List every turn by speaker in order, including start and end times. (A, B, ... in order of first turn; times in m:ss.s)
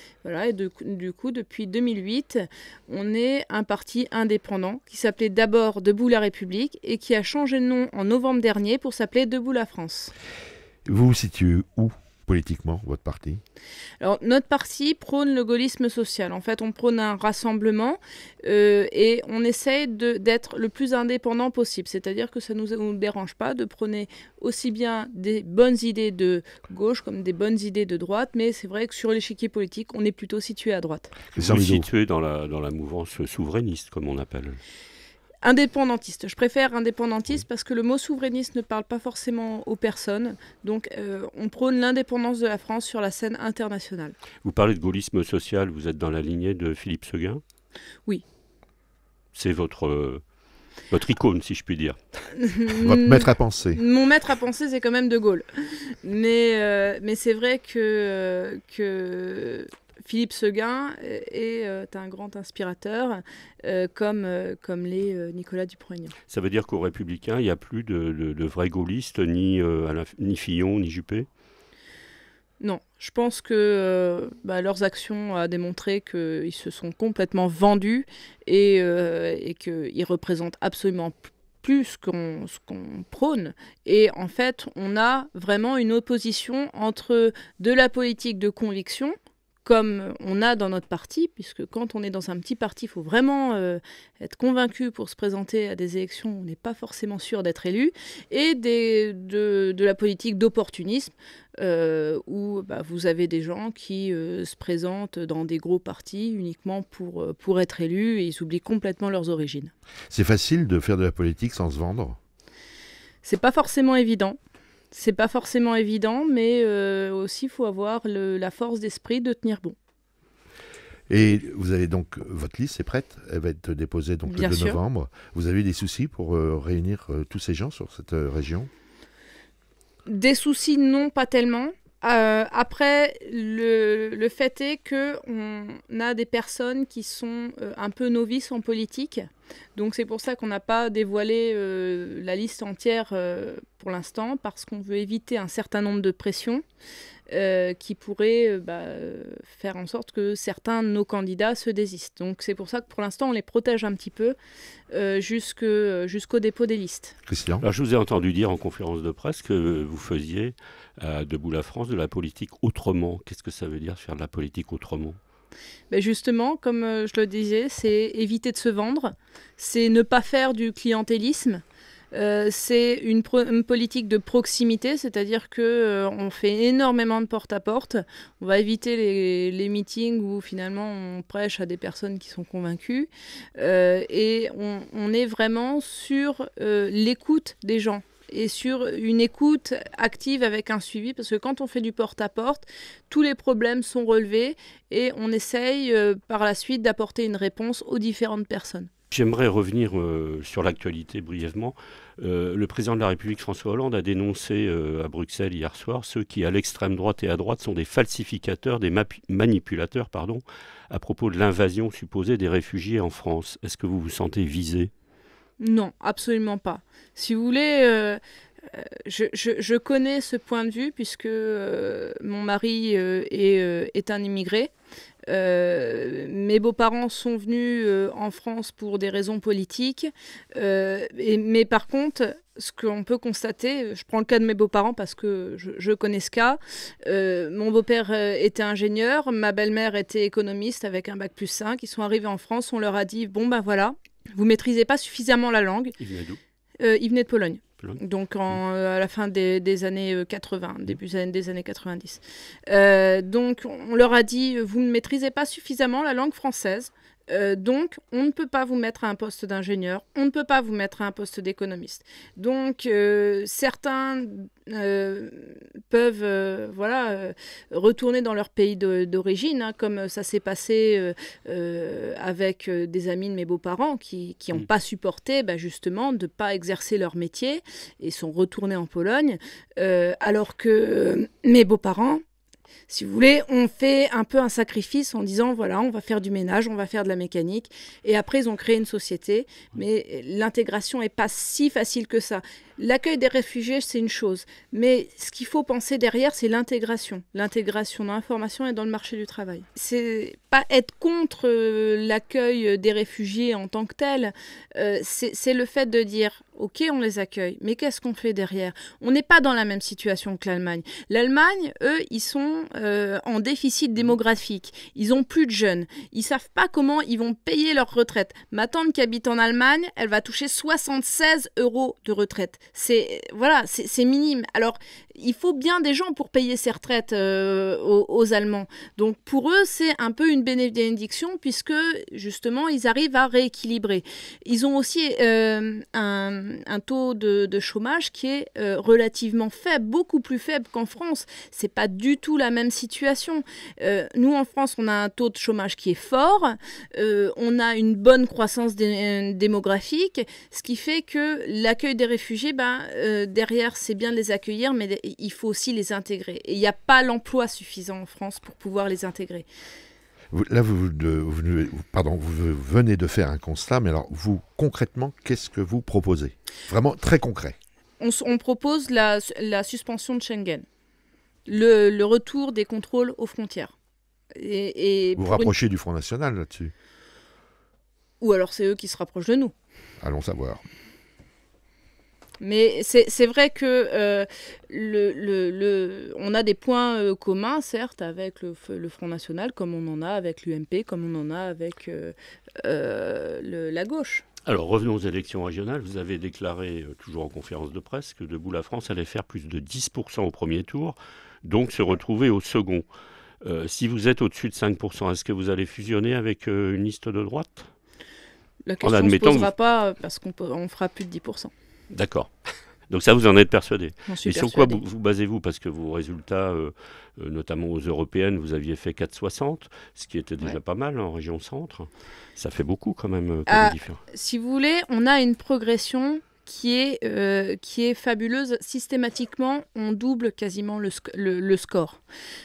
0:00.2-0:10.1 A
0:10.8-0:13.4 B
0:14.0-0:31.1 A
0:31.3-0:31.8 B
0:31.3-0:34.6 C
0:35.4-0:44.2 A
0:44.4-0:47.4 C
0:49.3-0:50.2 C
0:50.9-0:52.0 C
0:52.3-1:06.1 A
0:52.7-0:53.8 B
1:06.3-1:11.3 C
1:12.6-1:49.7 A
1:50.1-1:52.2 B
1:53.2-1:54.4 A
1:54.9-1:59.8 A
2:01.1-2:08.7 B
2:04.3-2:04.8 A
2:10.1-2:26.6 A
2:27.3-2:34.4 A
2:34.9-2:37.2 A
2:37.3-2:37.6 B
2:37.6-2:45.2 C
2:45.9-3:18.9 A
3:19.1-3:34.9 C
3:35.6-3:44.7 A
3:45.3-4:06.0 A
4:06.0-4:06.4 C
4:06.8-4:42.2 A
4:42.9-5:59.4 A
6:00.3-6:07.6 B
6:08.0-6:10.6 A
6:11.5-6:13.7 A
6:14.3-6:15.5 A
6:15.2-6:16.7 B
6:18.2-6:19.5 A
6:20.0-6:20.6 B
6:22.4-6:34.2 A
6:34.4-6:42.9 C
6:43.4-6:47.7 C
6:48.6-6:51.5 A
6:48.8-6:49.5 C
6:51.9-6:52.3 C
6:52.9-7:04.0 C
6:54.1-6:54.8 A
7:03.5-7:12.0 A